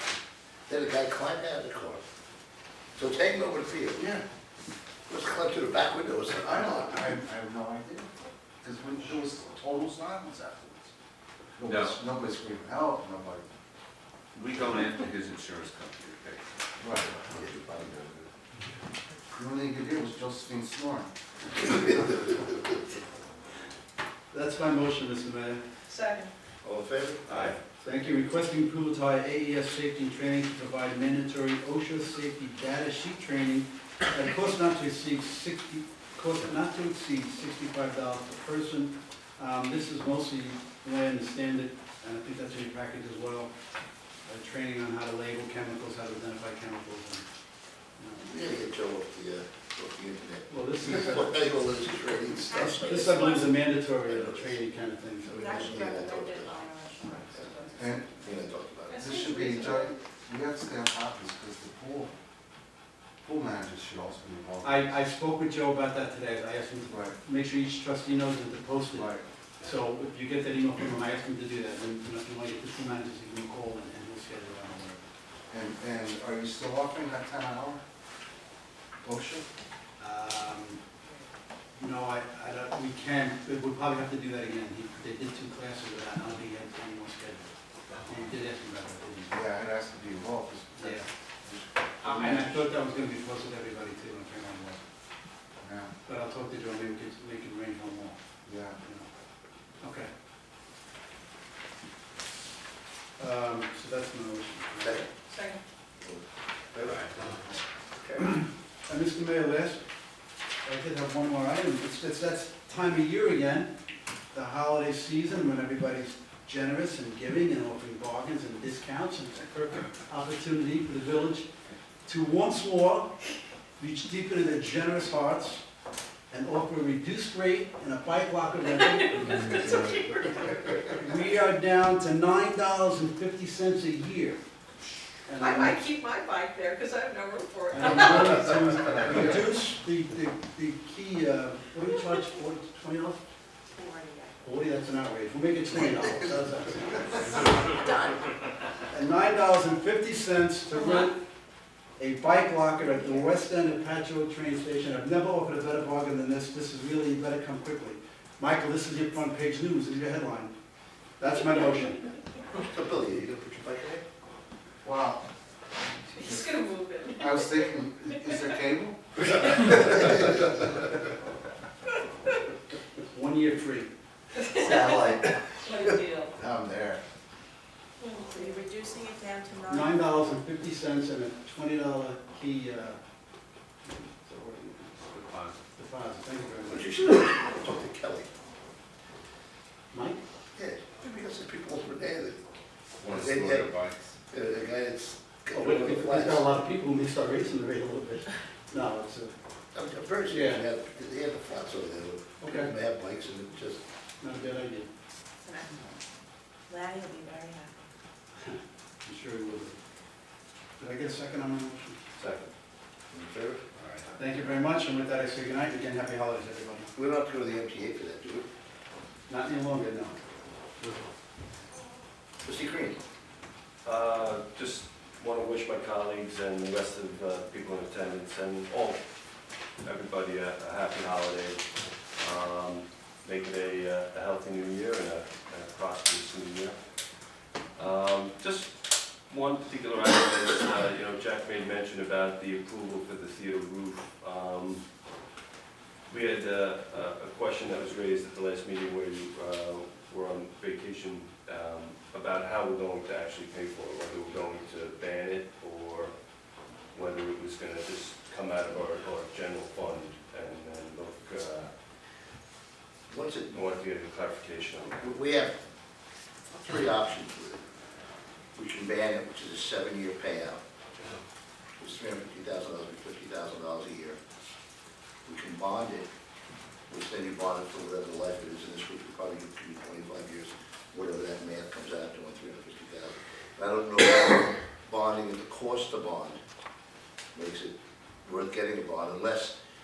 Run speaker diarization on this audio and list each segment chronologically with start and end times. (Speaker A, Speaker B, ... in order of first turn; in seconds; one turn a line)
Speaker A: 0.7-2.0
Speaker A: 3.0-4.0
Speaker B: 4.0-4.2
Speaker A: 5.1-7.1
Speaker B: 6.4-8.1
Speaker B: 8.6-10.9
Speaker B: 11.6-13.5
Speaker C: 11.6-12.0
Speaker C: 14.3-16.6
Speaker B: 16.8-17.1
Speaker A: 17.2-18.3
Speaker B: 19.3-21.1
Speaker D: 24.3-25.6
Speaker E: 25.9-26.3
Speaker A: 26.6-27.6
Speaker D: 27.8-43.5
Speaker D: 44.2-47.2
Speaker D: 48.0-48.4
Speaker A: 48.2-53.5
Speaker D: 50.5-51.9
Speaker D: 52.5-55.8
Speaker F: 52.5-53.3
Speaker A: 54.1-54.6
Speaker A: 55.2-59.2
Speaker F: 55.4-57.8
Speaker B: 57.8-58.1
Speaker E: 58.9-59.9
Speaker B: 59.0-62.1
Speaker B: 63.2-65.0
Speaker D: 64.6-75.0
Speaker B: 66.9-67.2
Speaker B: 68.9-69.2
Speaker B: 75.5-77.8
Speaker B: 79.0-79.5
Speaker D: 80.0-80.8
Speaker D: 81.8-87.5
Speaker D: 88.1-89.4
Speaker B: 89.3-92.5
Speaker D: 90.8-91.0
Speaker D: 92.0-94.8
Speaker B: 95.6-95.9
Speaker D: 96.1-98.2
Speaker B: 98.5-98.8
Speaker D: 98.8-99.1
Speaker D: 99.8-100.1
Speaker D: 103.2-105.1
Speaker E: 105.3-105.6
Speaker A: 106.7-107.0
Speaker C: 106.8-107.2
Speaker A: 108.0-108.4
Speaker D: 108.9-109.8
Speaker D: 110.6-113.7
Speaker D: 114.3-121.5
Speaker D: 122.0-123.1
Speaker D: 123.8-125.6
Speaker D: 126.3-134.4
Speaker E: 128.8-131.0
Speaker D: 135.2-135.8
Speaker E: 135.4-138.4
Speaker D: 137.7-143.2
Speaker F: 143.7-144.4
Speaker D: 144.4-147.7
Speaker F: 147.8-148.2
Speaker D: 148.9-151.2
Speaker D: 152.0-160.5
Speaker D: 161.2-162.1
Speaker A: 162.7-164.0
Speaker B: 164.8-165.2
Speaker E: 166.1-167.7
Speaker B: 166.2-166.6
Speaker B: 167.1-170.4
Speaker D: 173.0-173.9
Speaker E: 174.4-175.0
Speaker B: 174.6-175.2
Speaker E: 175.6-176.3
Speaker B: 176.3-177.0
Speaker E: 178.0-178.7
Speaker F: 178.3-179.9
Speaker D: 179.7-183.0
Speaker D: 183.8-185.0
Speaker C: 185.0-185.7
Speaker D: 185.8-187.3
Speaker A: 186.7-188.3
Speaker D: 189.9-190.2
Speaker A: 190.6-192.4
Speaker C: 193.0-194.2
Speaker A: 193.0-193.7
Speaker A: 194.3-196.4
Speaker D: 195.5-199.3
Speaker A: 199.7-203.8
Speaker D: 200.3-200.6
Speaker D: 202.4-202.7
Speaker D: 204.2-204.9
Speaker F: 205.4-205.8
Speaker F: 206.7-207.7
Speaker D: 208.4-209.8
Speaker D: 210.8-212.0
Speaker G: 212.2-212.5
Speaker A: 213.1-213.6
Speaker C: 213.8-214.1
Speaker D: 214.2-216.9
Speaker A: 216.9-218.5
Speaker D: 219.3-220.2
Speaker A: 222.4-223.0
Speaker G: 223.8-229.1
Speaker G: 229.8-236.8
Speaker G: 237.8-244.8
Speaker G: 246.1-256.1
Speaker G: 256.9-261.7
Speaker A: 263.1-263.6
Speaker G: 263.5-265.1
Speaker A: 265.0-265.6
Speaker A: 266.5-267.6
Speaker A: 268.6-270.6
Speaker A: 271.8-274.2
Speaker A: 275.3-276.1
Speaker A: 276.9-286.4
Speaker A: 287.3-289.5